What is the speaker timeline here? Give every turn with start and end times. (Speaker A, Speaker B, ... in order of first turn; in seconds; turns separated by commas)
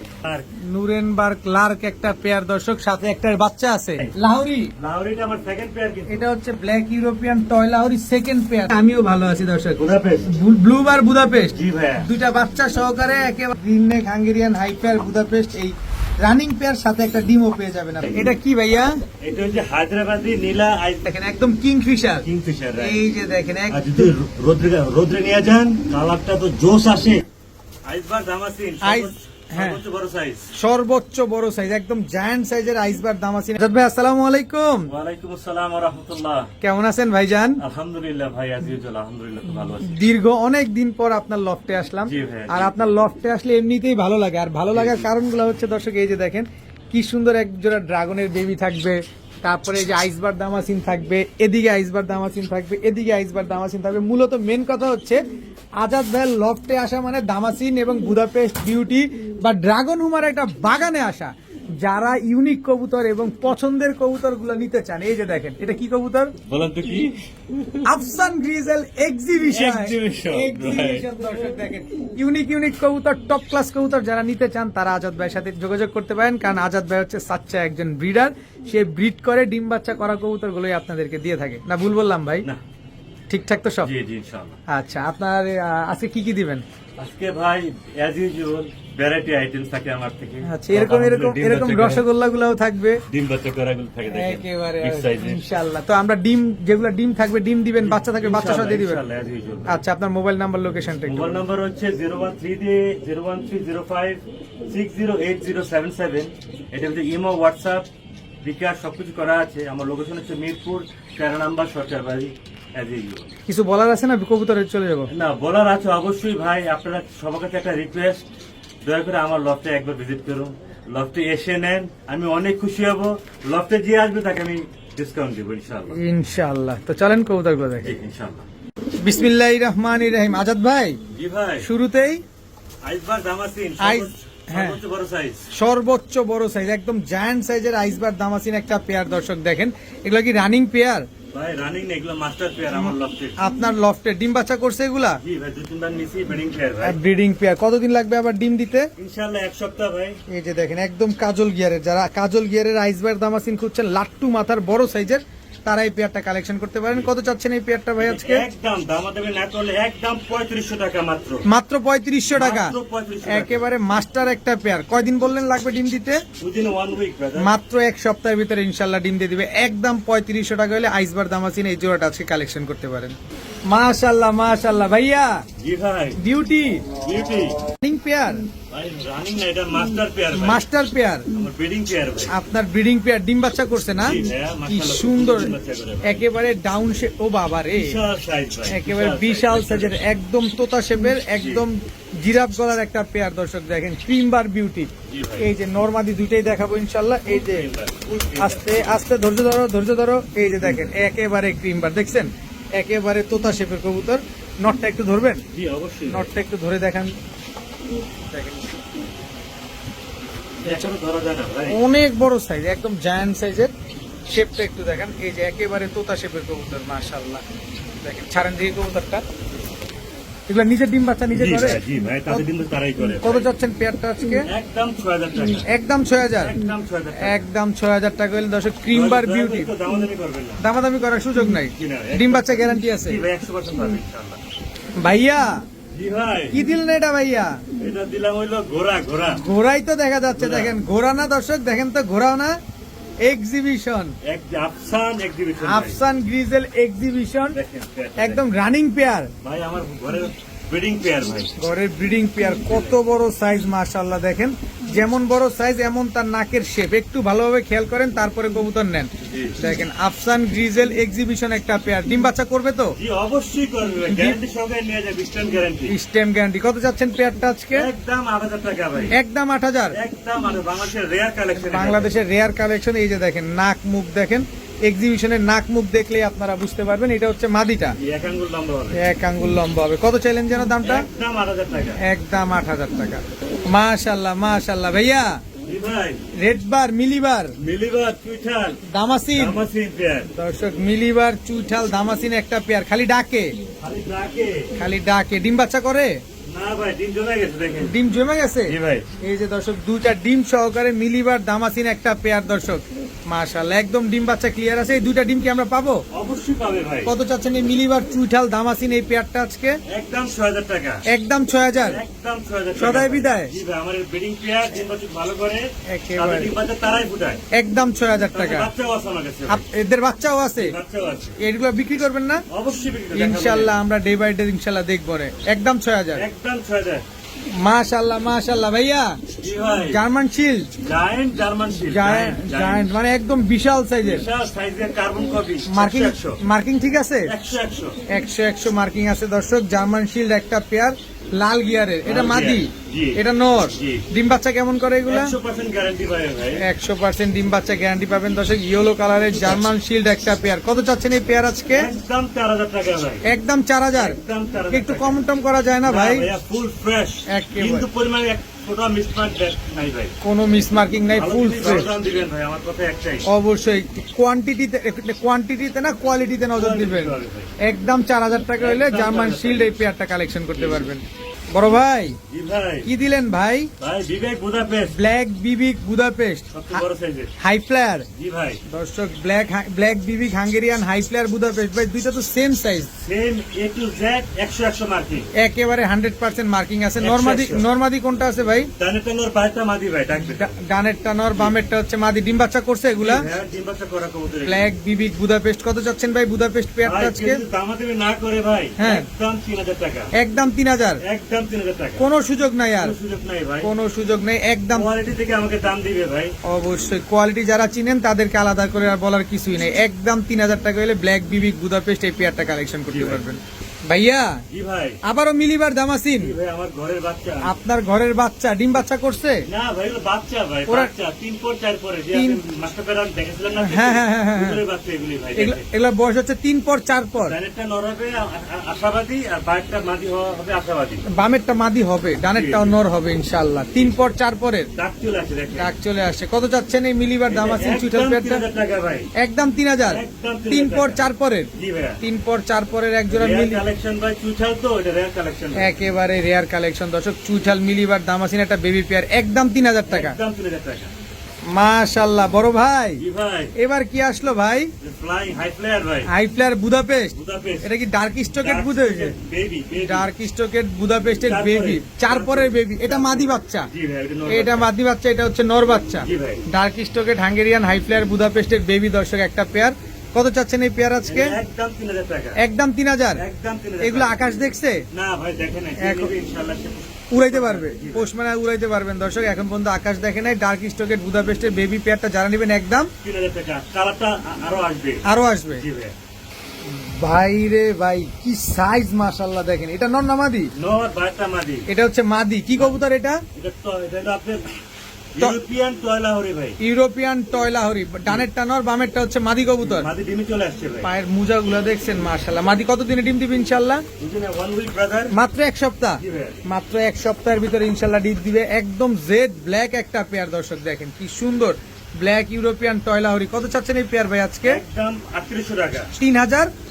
Speaker A: 0.2-0.5, Speaker B: 0.7-4.7, Speaker A: 4.8-6.2, Speaker B: 6.1-18.9, Speaker A: 9.8-10.3, Speaker A: 11.5-12.1, Speaker A: 19.2-21.1, Speaker B: 21.0-22.2, Speaker A: 22.2-23.0, Speaker B: 22.8-24.1, Speaker A: 23.7-27.2, Speaker A: 27.9-30.5, Speaker B: 28.8-29.8, Speaker B: 30.6-34.9, Speaker A: 34.9-36.5, Speaker B: 36.6-37.6, Speaker A: 37.6-40.0, Speaker B: 39.8-55.2, Speaker A: 42.0-42.8, Speaker A: 44.7-45.1, Speaker B: 55.8-66.3, Speaker A: 66.5-67.8, Speaker B: 67.8-82.5, Speaker A: 69.5-71.1, Speaker B: 83.3-83.9, Speaker A: 83.8-84.6, Speaker B: 84.7-86.6, Speaker A: 87.0-92.0, Speaker B: 90.5-93.0, Speaker A: 93.1-95.4, Speaker B: 94.1-99.0, Speaker A: 97.8-99.8, Speaker B: 99.7-101.4, Speaker A: 101.1-107.9, Speaker A: 108.4-113.3, Speaker B: 113.5-115.1, Speaker A: 115.1-118.2, Speaker A: 118.8-126.0, Speaker B: 126.0-127.9, Speaker A: 127.8-128.5, Speaker B: 129.0-131.0, Speaker A: 131.1-131.7, Speaker B: 131.6-132.2, Speaker A: 132.8-135.5, Speaker B: 133.8-134.8, Speaker B: 135.6-141.1, Speaker A: 141.3-143.4, Speaker B: 142.7-145.2, Speaker A: 145.2-147.0, Speaker B: 146.8-148.9, Speaker A: 149.0-150.2, Speaker B: 150.3-158.5, Speaker A: 158.0-161.4, Speaker B: 161.5-166.2, Speaker A: 162.4-163.7, Speaker A: 166.4-167.5, Speaker B: 167.4-173.2, Speaker B: 173.7-175.4, Speaker A: 175.6-176.2, Speaker B: 176.2-176.9, Speaker A: 177.0-177.6, Speaker B: 177.8-178.5, Speaker A: 178.7-180.6, Speaker B: 180.3-181.3, Speaker A: 181.3-182.3, Speaker B: 182.3-188.0, Speaker A: 184.0-186.2, Speaker A: 187.8-190.0, Speaker B: 188.7-197.7, Speaker A: 191.3-191.6, Speaker A: 195.1-195.5, Speaker A: 197.3-198.9, Speaker B: 198.4-205.4, Speaker A: 200.6-200.9, Speaker A: 205.5-206.3, Speaker B: 206.1-207.2, Speaker B: 208.3-208.7, Speaker A: 210.6-211.8, Speaker B: 211.7-213.7, Speaker B: 214.3-217.4, Speaker B: 218.0-219.2, Speaker B: 220.5-222.4, Speaker A: 221.3-223.5, Speaker B: 223.1-224.5, Speaker A: 224.4-225.7, Speaker B: 225.7-226.6, Speaker A: 226.4-227.5, Speaker B: 227.2-229.7, Speaker A: 228.9-230.6, Speaker B: 230.6-233.2, Speaker A: 231.7-234.4, Speaker B: 235.0-235.7, Speaker A: 235.9-236.6, Speaker B: 236.5-237.6, Speaker A: 237.8-239.4, Speaker B: 239.4-242.6, Speaker A: 240.3-240.8, Speaker B: 243.2-244.2, Speaker A: 244.2-246.0, Speaker B: 245.6-247.6, Speaker A: 247.5-248.4, Speaker B: 248.2-249.3, Speaker A: 249.4-251.6, Speaker B: 251.6-262.9, Speaker A: 252.7-253.0, Speaker A: 259.3-259.6, Speaker A: 262.9-265.9, Speaker B: 264.0-264.4, Speaker B: 265.9-267.9, Speaker A: 267.7-269.1, Speaker B: 269.1-270.0, Speaker A: 269.9-272.1, Speaker B: 271.6-277.9, Speaker A: 277.9-279.0, Speaker B: 278.9-281.1, Speaker A: 280.8-282.0, Speaker B: 282.0-285.4, Speaker A: 285.6-286.2, Speaker B: 286.4-287.5, Speaker A: 287.6-288.8, Speaker B: 288.9-289.6, Speaker A: 289.3-290.3, Speaker B: 290.4-293.6, Speaker A: 293.8-294.7, Speaker B: 294.8-296.2, Speaker A: 296.5-297.9, Speaker B: 297.8-306.0, Speaker A: 298.7-299.1, Speaker A: 306.1-307.1, Speaker B: 307.1-309.8, Speaker A: 309.9-311.0, Speaker B: 311.1-312.0, Speaker A: 311.9-317.4, Speaker B: 312.8-313.5, Speaker B: 315.9-316.5, Speaker B: 317.5-318.7, Speaker A: 318.4-319.6, Speaker B: 319.5-320.8, Speaker A: 320.6-321.4, Speaker B: 321.4-322.4, Speaker A: 322.5-323.8, Speaker B: 323.1-326.2, Speaker A: 326.1-327.0, Speaker B: 327.6-329.2, Speaker A: 329.4-330.0, Speaker B: 329.9-330.7, Speaker A: 330.8-332.9, Speaker B: 331.9-334.3, Speaker A: 334.0-336.4, Speaker B: 335.7-337.3, Speaker A: 337.2-338.0, Speaker B: 338.1-345.4, Speaker A: 342.1-343.2, Speaker A: 343.8-344.1, Speaker A: 345.1-346.6, Speaker B: 346.6-351.9, Speaker A: 351.7-353.2, Speaker B: 353.2-354.2, Speaker A: 353.9-355.2, Speaker B: 354.7-356.3, Speaker A: 355.9-360.1, Speaker B: 357.3-357.9, Speaker B: 360.2-361.9, Speaker A: 361.1-363.3, Speaker B: 363.3-372.2, Speaker A: 366.6-367.5, Speaker A: 368.6-369.8, Speaker A: 370.6-370.9, Speaker A: 372.3-372.9, Speaker B: 372.9-373.7, Speaker A: 373.8-375.0, Speaker B: 374.9-376.8, Speaker A: 376.5-377.3, Speaker B: 377.4-378.1, Speaker A: 378.1-378.6, Speaker B: 378.7-382.9, Speaker A: 382.9-385.3, Speaker B: 385.4-388.7, Speaker A: 387.0-387.6, Speaker A: 388.8-390.6, Speaker B: 390.2-393.3, Speaker A: 393.0-394.7, Speaker B: 394.4-397.4, Speaker A: 396.8-400.1, Speaker B: 398.8-399.1, Speaker B: 400.2-401.0, Speaker A: 401.0-402.0, Speaker B: 402.0-402.9, Speaker A: 402.8-403.7, Speaker B: 403.6-404.9, Speaker A: 404.7-406.4, Speaker B: 406.4-414.4, Speaker A: 412.9-413.2, Speaker A: 414.5-415.0, Speaker B: 415.0-416.4, Speaker A: 416.2-417.5, Speaker B: 417.4-419.4, Speaker A: 419.5-425.7, Speaker B: 422.1-422.4, Speaker B: 423.6-424.6, Speaker B: 425.4-427.4, Speaker A: 427.2-431.0, Speaker B: 431.1-434.7, Speaker A: 432.3-432.8, Speaker A: 434.8-435.7, Speaker B: 435.6-438.4, Speaker A: 437.3-439.1, Speaker B: 439.2-441.5, Speaker A: 439.9-442.0, Speaker B: 442.0-443.6, Speaker A: 443.1-445.7, Speaker B: 445.6-450.2, Speaker A: 449.9-450.9, Speaker B: 451.5-453.0, Speaker A: 453.0-453.5, Speaker B: 453.6-454.7, Speaker A: 454.8-456.1, Speaker B: 456.1-459.1, Speaker A: 457.1-457.7, Speaker A: 458.4-460.1, Speaker B: 459.8-463.7, Speaker A: 461.2-464.7, Speaker B: 464.3-471.4, Speaker A: 466.0-466.4, Speaker A: 471.0-472.4, Speaker B: 472.4-473.2, Speaker A: 473.2-474.2, Speaker B: 473.8-474.9, Speaker A: 474.9-478.1, Speaker B: 475.8-476.1, Speaker B: 477.1-482.9, Speaker A: 483.0-485.9, Speaker B: 485.1-485.6, Speaker B: 486.7-490.5, Speaker A: 490.6-491.7, Speaker B: 491.7-493.2, Speaker A: 493.3-494.6, Speaker A: 495.1-496.6, Speaker B: 496.6-499.9, Speaker A: 499.6-500.9, Speaker B: 500.8-503.8, Speaker A: 504.0-505.1, Speaker B: 505.1-514.6, Speaker A: 506.0-506.4, Speaker A: 514.4-515.9, Speaker B: 516.0-516.5